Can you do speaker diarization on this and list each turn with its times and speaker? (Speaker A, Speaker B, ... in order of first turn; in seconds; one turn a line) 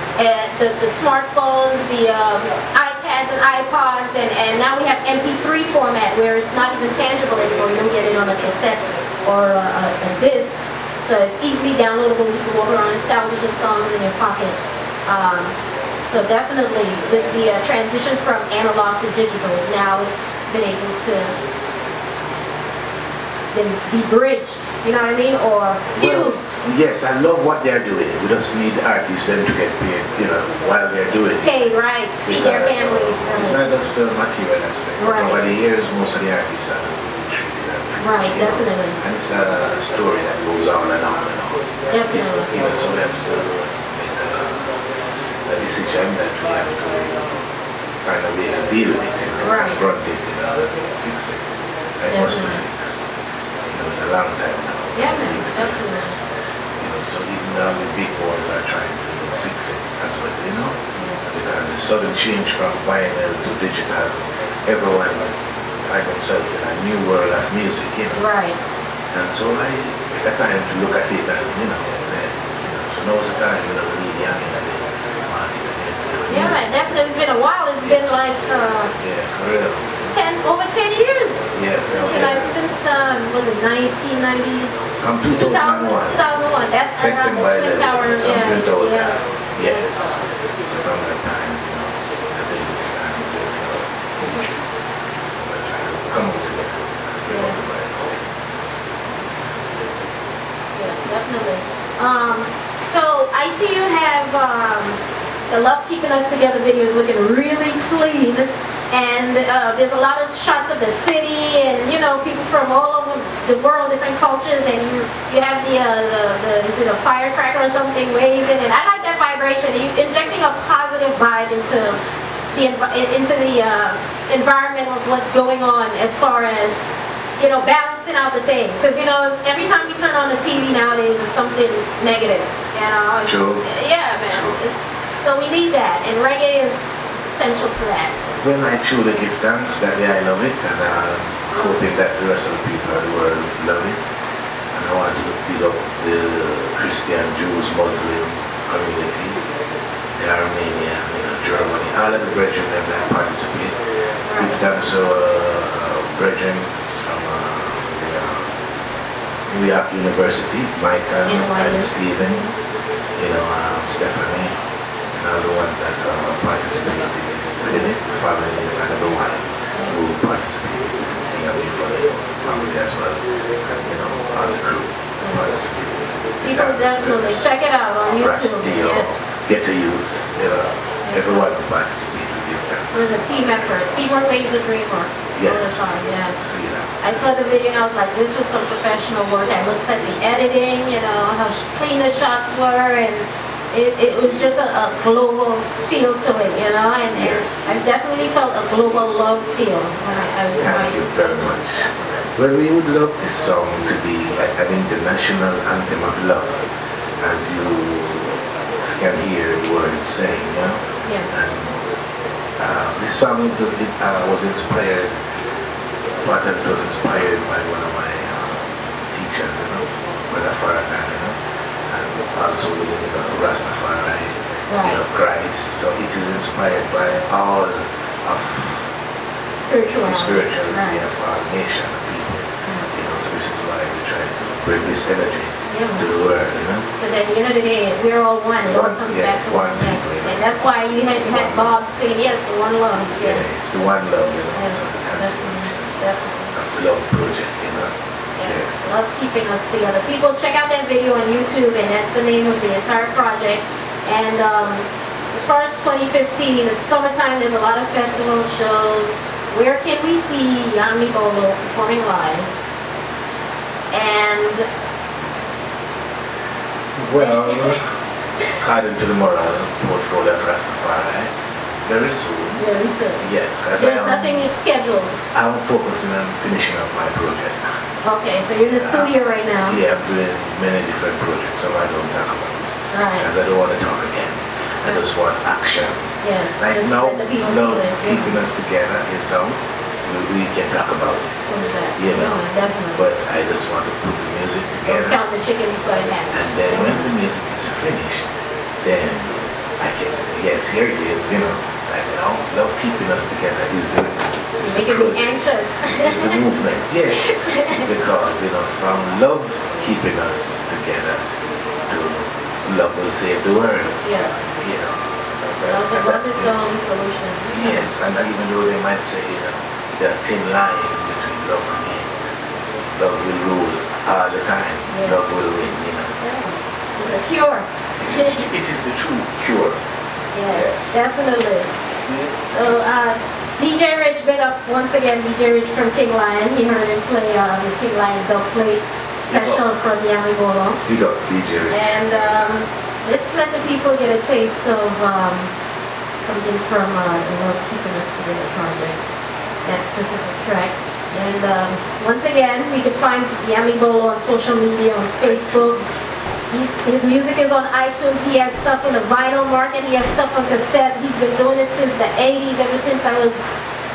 Speaker A: 0.2-15.5
Speaker A: 16.1-21.3
Speaker A: 23.5-26.5
Speaker B: 25.9-31.6
Speaker A: 31.4-33.6
Speaker B: 32.2-44.8
Speaker A: 35.0-35.4
Speaker A: 38.0-39.0
Speaker A: 41.9-42.5
Speaker B: 45.5-47.4
Speaker B: 48.0-51.4
Speaker A: 49.4-49.8
Speaker B: 52.0-53.0
Speaker A: 52.1-52.6
Speaker B: 53.7-56.2
Speaker A: 54.9-56.1
Speaker B: 56.8-60.8
Speaker A: 60.9-61.2
Speaker B: 61.3-68.2
Speaker A: 68.1-68.6
Speaker B: 69.1-77.0
Speaker A: 76.3-78.9
Speaker B: 79.0-79.9
Speaker A: 80.1-84.7
Speaker B: 81.5-82.5
Speaker B: 85.0-86.2
Speaker A: 85.3-90.2
Speaker B: 86.9-94.6
Speaker B: 95.2-98.3
Speaker A: 97.3-97.6
Speaker A: 100.8-122.0
Speaker A: 122.5-126.8
Speaker A: 127.4-138.1
Speaker B: 133.2-133.7
Speaker B: 134.3-134.6
Speaker B: 138.4-144.0
Speaker A: 141.5-141.8
Speaker B: 144.7-149.4
Speaker B: 150.2-153.7
Speaker A: 154.2-154.6
Speaker B: 154.3-158.5
Speaker B: 159.5-162.4
Speaker A: 161.2-161.9
Speaker B: 163.2-164.5
Speaker B: 165.1-177.5
Speaker A: 175.2-175.5
Speaker A: 176.4-179.3
Speaker B: 178.2-183.2
Speaker A: 181.0-181.5
Speaker A: 182.9-186.4
Speaker B: 185.3-187.2
Speaker A: 187.0-202.2
Speaker B: 197.1-197.6
Speaker B: 200.6-206.5
Speaker B: 207.2-211.8
Speaker B: 212.6-215.1
Speaker B: 216.2-221.3
Speaker B: 221.9-228.8
Speaker A: 224.7-225.0
Speaker A: 229.6-231.0
Speaker B: 230.0-236.9
Speaker A: 232.6-232.9
Speaker A: 235.7-236.1
Speaker A: 237.0-243.6
Speaker B: 238.7-241.8
Speaker B: 243.2-246.0
Speaker A: 244.5-246.5
Speaker B: 246.5-247.9
Speaker A: 248.3-262.5
Speaker B: 248.4-248.8
Speaker A: 263.9-264.7
Speaker B: 267.0-267.9
Speaker A: 267.1-267.8
Speaker B: 268.6-271.3
Speaker B: 271.8-272.6
Speaker A: 272.6-273.2
Speaker B: 273.2-274.5
Speaker A: 273.8-275.1
Speaker B: 275.3-277.8
Speaker A: 278.0-279.8
Speaker B: 278.7-286.0
Speaker A: 282.9-283.3
Speaker A: 286.2-288.4
Speaker B: 286.6-291.3
Speaker A: 291.5-293.0
Speaker B: 291.9-292.4
Speaker B: 292.9-295.2
Speaker A: 294.9-297.1
Speaker B: 296.3-311.2
Speaker A: 304.6-306.4
Speaker A: 307.1-307.9
Speaker B: 311.9-314.0
Speaker A: 314.0-314.3
Speaker B: 314.5-316.6
Speaker A: 315.7-317.9
Speaker B: 317.5-322.1
Speaker B: 322.8-326.1
Speaker A: 324.9-325.2
Speaker A: 326.2-328.4
Speaker B: 328.0-329.8
Speaker A: 330.3-331.7
Speaker B: 330.5-331.0
Speaker B: 332.0-332.3
Speaker A: 332.5-340.8
Speaker B: 339.3-339.6
Speaker B: 340.8-341.9
Speaker A: 341.7-345.5
Speaker A: 346.2-349.0
Speaker A: 349.6-355.8
Speaker B: 355.2-356.0
Speaker A: 356.5-363.5